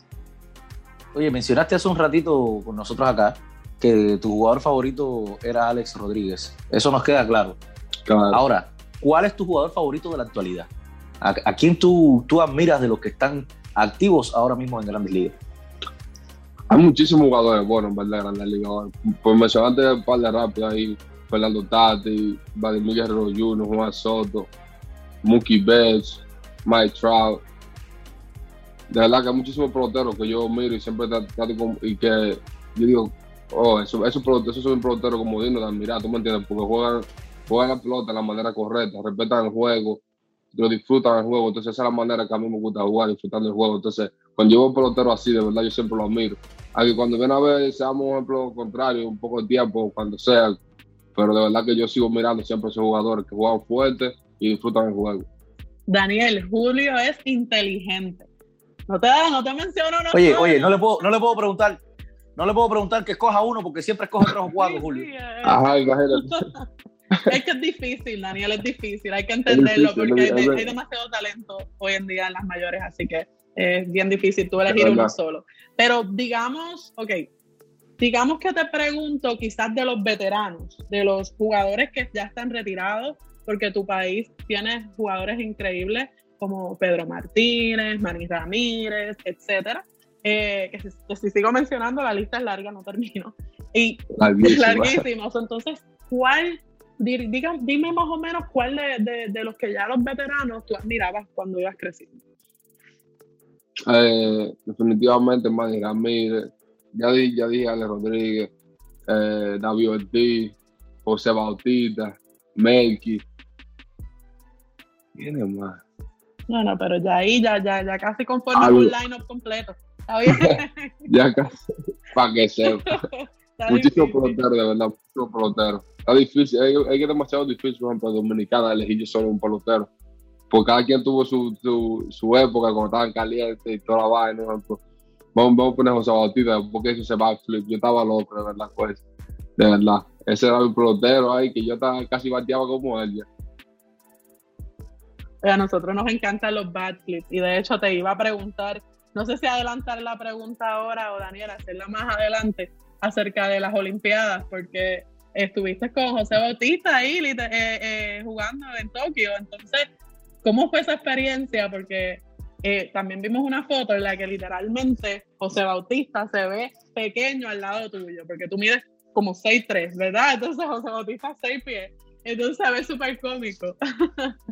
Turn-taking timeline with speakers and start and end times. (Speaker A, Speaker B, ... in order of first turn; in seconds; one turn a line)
Speaker A: 1.1-7.6
Speaker B: 8.1-8.4
Speaker A: 8.3-10.7
Speaker A: 11.2-15.4
Speaker B: 16.7-24.5
Speaker B: 25.2-27.4
Speaker B: 28.9-40.0
Speaker B: 40.5-50.6
Speaker B: 51.1-55.2
Speaker C: 55.9-58.3
Speaker C: 58.9-60.8
Speaker A: 60.1-61.8
Speaker A: 62.4-65.1
Speaker C: 64.6-66.6
Speaker B: 65.4-66.4
Speaker C: 67.2-77.3
Speaker B: 69.5-70.7
Speaker B: 74.7-75.1
Speaker C: 78.0-102.2
Speaker B: 94.2-95.0
Speaker B: 103.9-108.5
Speaker B: 109.1-113.2
Speaker B: 115.2-115.8
Speaker C: 116.5-121.1
Speaker B: 118.5-118.9
Speaker B: 120.3-120.6
Speaker B: 121.1-122.9
Speaker C: 122.7-124.4
Speaker B: 123.7-129.9
Speaker B: 130.5-134.8
Speaker B: 135.3-139.0
Speaker B: 139.6-143.3
Speaker C: 145.4-159.9
Speaker C: 160.4-174.3